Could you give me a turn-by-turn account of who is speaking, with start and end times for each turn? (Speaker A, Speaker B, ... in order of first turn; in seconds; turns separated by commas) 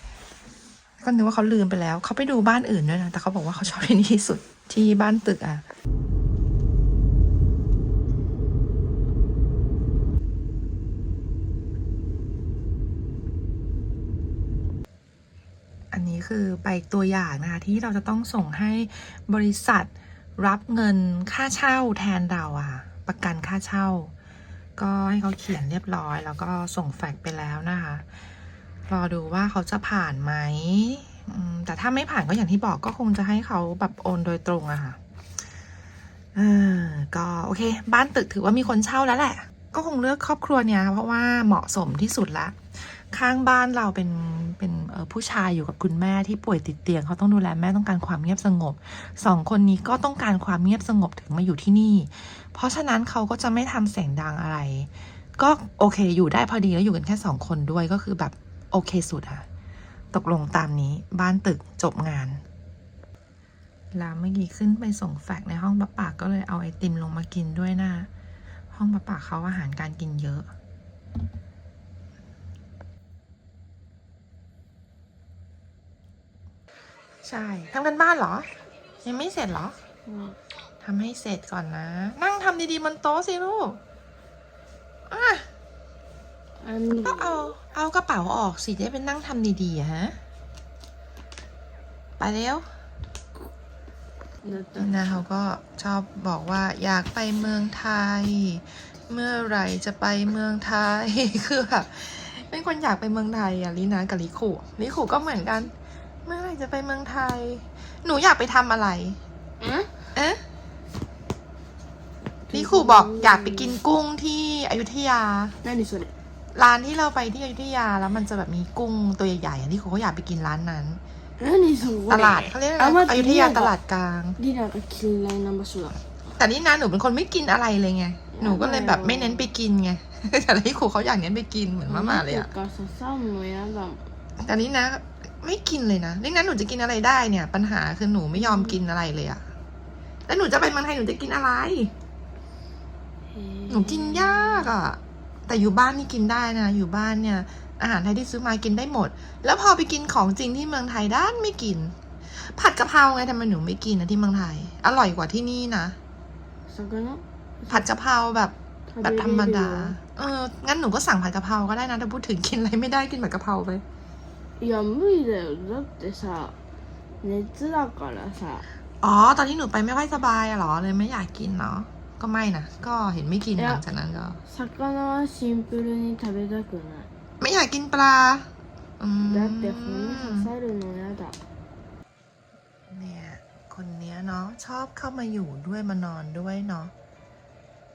Speaker A: 1.0-5.6, Speaker A: 15.9-24.1, Speaker A: 24.8-28.1, Speaker A: 28.9-35.0, Speaker A: 36.3-59.4, Speaker A: 60.1-62.4, Speaker A: 63.9-68.1, Speaker A: 68.7-70.5, Speaker A: 77.2-78.5, Speaker A: 79.0-79.8, Speaker B: 80.1-80.4, Speaker A: 80.8-83.8, Speaker A: 85.1-85.5, Speaker B: 86.6-87.5, Speaker A: 87.0-90.2, Speaker A: 92.2-92.7, Speaker B: 94.4-95.1, Speaker A: 94.8-105.7, Speaker A: 106.2-109.2, Speaker B: 109.6-109.9, Speaker A: 110.1-110.4, Speaker B: 112.5-113.8, Speaker A: 112.5-115.5, Speaker B: 115.6-116.1, Speaker A: 116.5-121.0, Speaker B: 121.4-123.7, Speaker A: 122.1-124.4, Speaker B: 124.4-126.0, Speaker A: 126.3-132.5, Speaker B: 128.3-129.5, Speaker B: 131.8-134.0, Speaker A: 134.4-139.4, Speaker B: 138.3-138.8, Speaker A: 140.3-141.9, Speaker B: 143.3-144.8, Speaker A: 143.7-156.0, Speaker B: 156.7-157.9, Speaker A: 157.7-163.8, Speaker B: 158.9-159.9, Speaker B: 164.6-166.5, Speaker B: 167.2-168.6, Speaker A: 169.0-174.4, Speaker B: 173.6-173.8, Speaker B: 174.5-177.1, Speaker A: 177.4-180.5, Speaker B: 179.2-181.4, Speaker A: 182.9-186.9